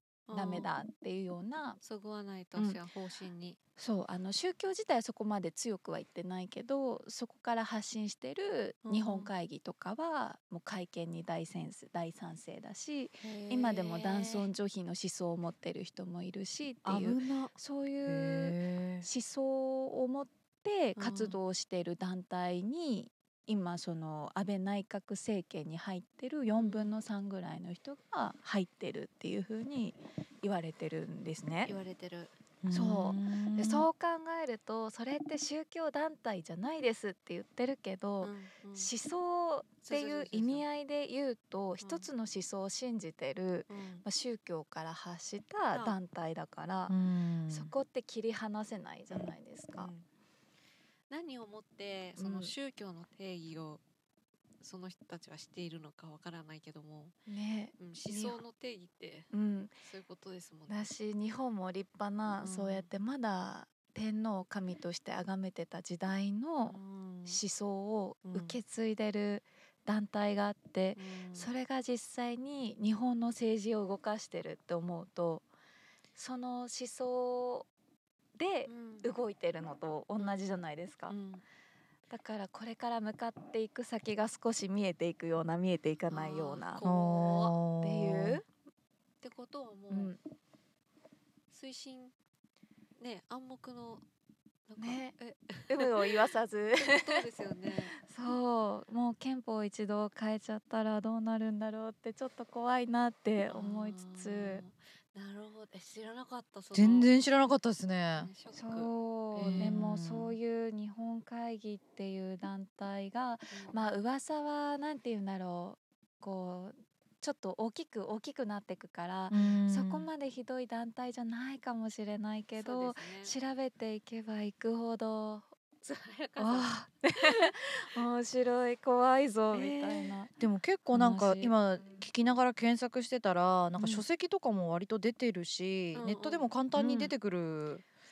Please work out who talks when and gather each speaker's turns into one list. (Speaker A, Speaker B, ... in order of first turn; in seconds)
Speaker A: 0.3-0.7, 1.8-3.6, 8.8-9.3, 13.2-14.5, 21.0-21.4, 26.5-26.9, 31.6-32.3, 38.2-38.9, 39.8-40.6, 41.8-42.1, 43.7-44.0, 49.1-50.0, 51.1-53.8, 54.6-57.1, 57.8-59.3, 59.8-60.9, 62.4-62.9, 66.7-67.4, 68.2-68.6, 71.0-71.5, 78.7-79.1, 80.2-81.4, 86.1-87.5, 89.2-90.1, 91.5-92.1, 93.0-94.0, 94.7-98.0, 103.4-107.1, 108.2-109.8, 113.5-113.8, 122.5-123.3, 125.8-126.7, 129.5-130.1, 131.8-132.0, 135.9-136.5
Speaker B: 0.3-1.8, 3.8-31.7, 32.7-47.0, 47.5-49.9, 52.2-52.5, 57.3-58.4, 59.3-59.8, 60.7-75.5, 76.1-77.7, 78.4-81.1, 82.1-86.8, 87.8-88.5, 89.9-90.2, 94.8-95.1, 95.7-97.2, 98.0-104.6, 108.5-125.5, 126.4-130.3, 130.9-131.5, 133.8-134.0, 136.7-137.1
Speaker C: 16.8-17.5, 18.1-19.1, 32.6-33.9, 46.9-47.7, 86.8-88.4, 106.7-108.3, 109.3-110.3, 119.3-120.1, 130.4-137.8